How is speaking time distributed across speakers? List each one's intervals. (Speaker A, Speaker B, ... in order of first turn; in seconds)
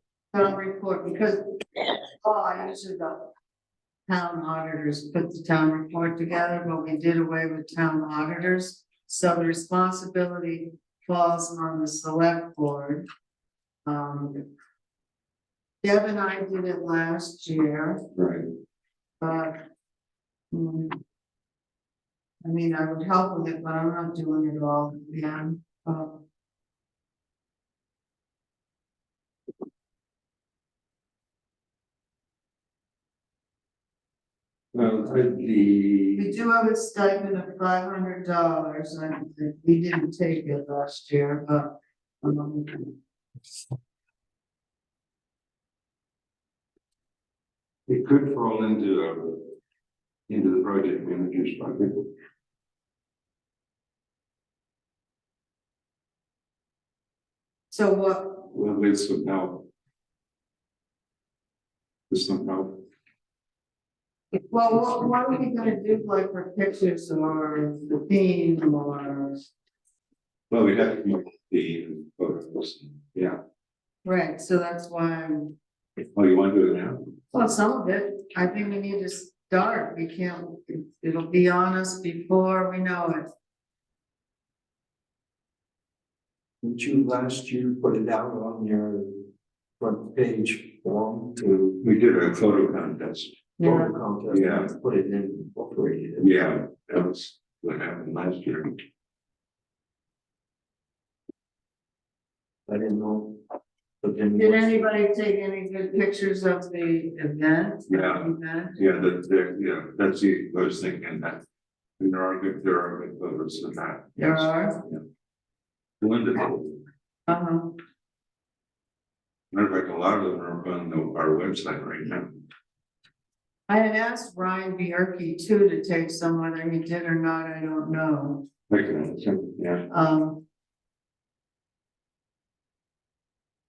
Speaker A: 0.3-1.4, 2.2-3.3, 4.1-13.1, 13.9-14.4, 15.8-18.0, 19.2-19.6, 20.5-21.0, 22.4-26.2, 36.2-42.9, 57.7-58.4, 64.5-69.4, 74.0-75.5, 77.3-83.3, 93.6-93.9, 104.3-109.0, 114.2-114.8, 117.3-117.7, 123.7-128.4, 129.9-130.4
Speaker B: 18.1-18.4, 34.7-36.3, 47.9-49.5, 50.3-52.1, 58.5-59.6, 62.1-62.8, 70.5-73.3, 76.0-77.0, 91.8-93.4, 94.3-94.7, 96.2-98.8, 107.9-108.2, 108.8-111.4, 112.0-115.0, 116.0-116.8, 119.5-122.4, 128.7-129.8
Speaker C: 86.6-89.2, 89.8-91.8, 93.6-96.3, 102.7-103.4, 104.0-104.8